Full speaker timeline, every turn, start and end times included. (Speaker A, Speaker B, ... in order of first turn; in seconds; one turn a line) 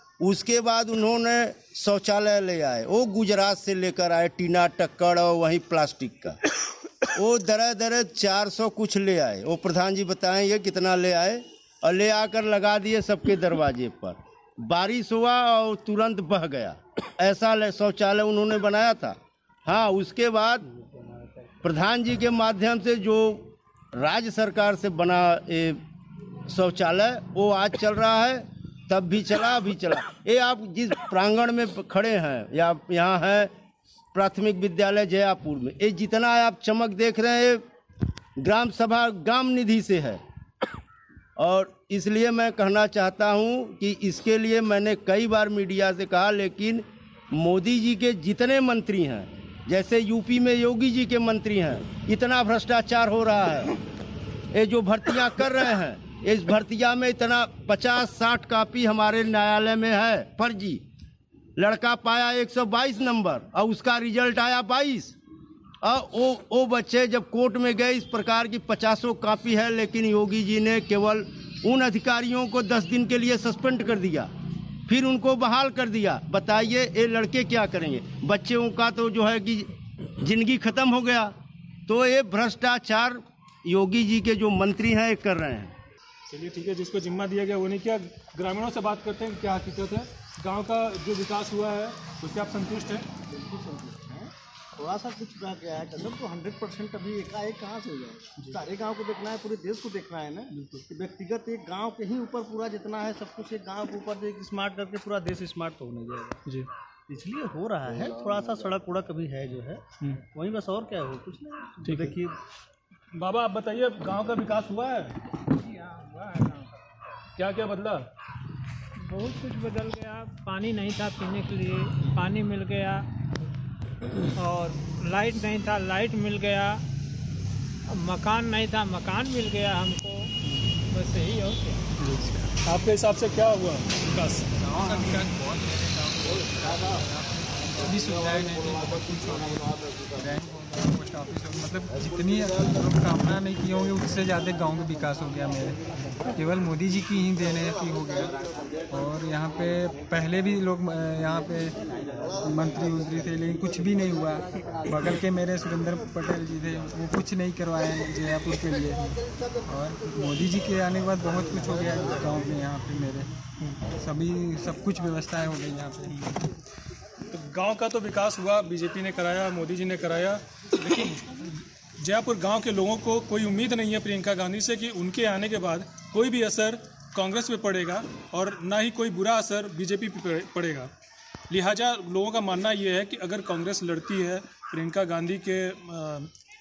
Speaker A: 0.2-6.4
Speaker A: 7.1-20.6
Speaker A: 21.6-25.8
Speaker A: 26.5-33.5
Speaker A: 34.1-37.6
Speaker A: 38.4-40.2
Speaker A: 41.4-53.8
Speaker A: 54.5-60.8
Speaker A: 61.6-65.1
Speaker A: 65.8-74.3
Speaker A: 74.9-81.3
Speaker A: 81.9-85.7
Speaker B: 86.3-93.1
Speaker C: 93.2-106.4
Speaker B: 100.5-100.8
Speaker C: 107.1-112.4
Speaker B: 111.8-112.2
Speaker B: 113.1-115.2
Speaker D: 115.5-116.8
Speaker B: 117.4-118.1
Speaker D: 119.0-123.0
Speaker D: 124.4-126.8
Speaker D: 127.9-130.3
Speaker D: 130.9-131.9
Speaker B: 132.0-134.5
Speaker E: 134.6-151.8
Speaker E: 152.3-163.3
Speaker E: 163.9-166.3
Speaker B: 166.1-166.5
Speaker B: 167.3-180.9
Speaker B: 181.5-186.3